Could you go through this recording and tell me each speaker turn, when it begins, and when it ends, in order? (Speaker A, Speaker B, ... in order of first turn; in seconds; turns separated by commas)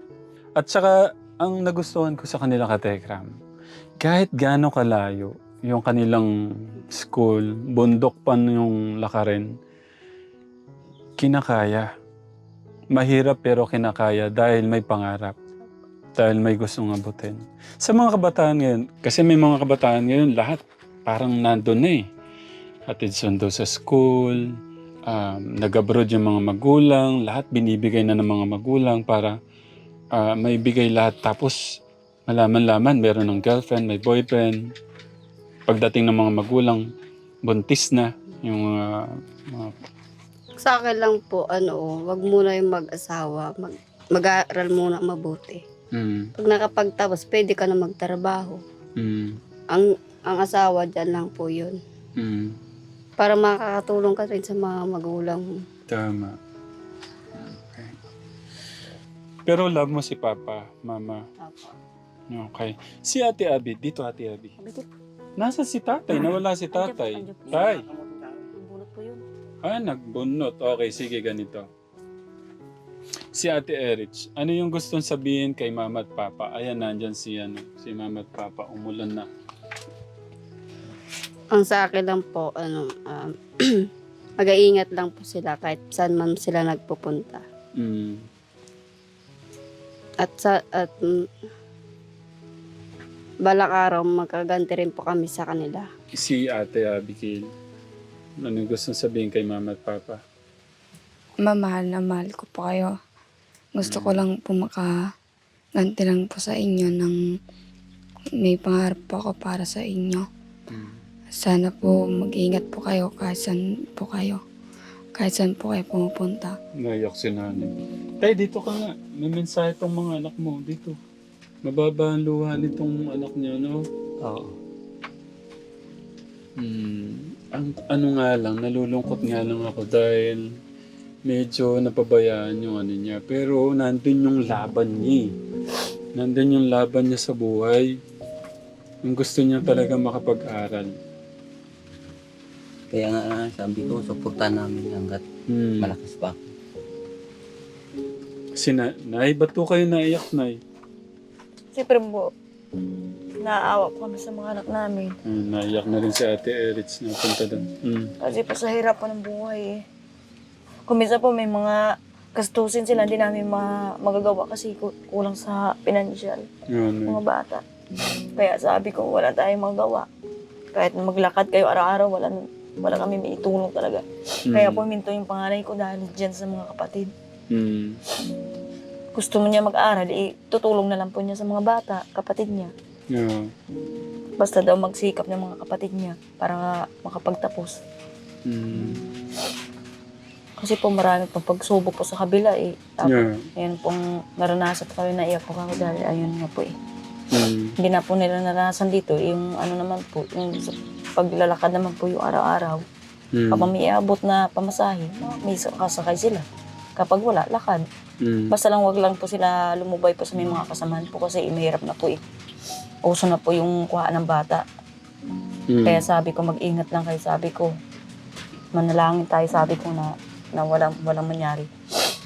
Speaker A: 0.6-3.3, Speaker A: 4.0-9.4, Speaker A: 11.2-11.8, Speaker A: 12.9-15.3, Speaker A: 16.2-22.0, Speaker A: 22.9-24.4, Speaker A: 25.1-29.4, Speaker A: 30.2-31.6, Speaker A: 32.3-34.6, Speaker A: 35.7-36.8, Speaker A: 37.5-39.8, Speaker B: 40.6-45.6, Speaker A: 45.9-46.3, Speaker B: 46.4-48.6, Speaker A: 49.0-49.4, Speaker B: 49.7-51.8, Speaker A: 52.2-52.5, Speaker B: 53.2-55.5, Speaker A: 55.9-56.4, Speaker A: 57.4-58.0, Speaker A: 59.5-61.2, Speaker B: 61.4-61.8, Speaker A: 62.3-64.5, Speaker C: 64.6-64.8, Speaker A: 65.4-67.9, Speaker C: 66.1-67.8, Speaker C: 68.5-69.2, Speaker A: 69.6-71.7, Speaker A: 73.4-79.3, Speaker B: 81.5-83.9, Speaker B: 84.4-87.4, Speaker A: 87.8-88.2, Speaker B: 90.2-91.3, Speaker B: 93.5-95.9, Speaker A: 96.2-97.4, Speaker A: 98.4-100.2, Speaker D: 101.4-102.9, Speaker D: 103.8-104.9, Speaker A: 103.8-104.2, Speaker D: 105.8-107.2, Speaker D: 108.4-110.2, Speaker A: 110.7-111.0, Speaker D: 111.4-114.4, Speaker D: 115.2-116.6, Speaker A: 116.8-121.0, Speaker A: 121.7-124.5, Speaker A: 126.6-130.4, Speaker A: 131.3-135.3, Speaker A: 136.2-137.9, Speaker A: 139.1-140.9, Speaker E: 142.9-145.2, Speaker A: 145.5-146.0, Speaker E: 145.8-146.5, Speaker A: 148.6-150.6, Speaker F: 151.8-152.3, Speaker F: 153.4-155.1, Speaker A: 155.3-158.1, Speaker F: 158.2-159.8, Speaker F: 160.9-161.8, Speaker F: 162.4-166.5, Speaker A: 166.7-167.2, Speaker F: 167.1-167.6, Speaker F: 168.4-170.1, Speaker F: 170.7-177.1, Speaker A: 174.5-174.9, Speaker A: 177.5-178.0, Speaker F: 179.2-182.7, Speaker A: 183.1-183.5, Speaker F: 184.4-187.8, Speaker A: 188.5-189.0, Speaker F: 190.6-196.7, Speaker A: 193.0-193.5, Speaker A: 197.3-197.8, Speaker F: 197.8-202.8, Speaker A: 203.3-203.7, Speaker F: 203.5-206.4, Speaker F: 207.0-207.8, Speaker A: 208.2-208.5, Speaker F: 208.5-212.2, Speaker F: 213.1-214.6, Speaker A: 215.7-216.1, Speaker F: 215.8-217.7, Speaker F: 218.7-221.7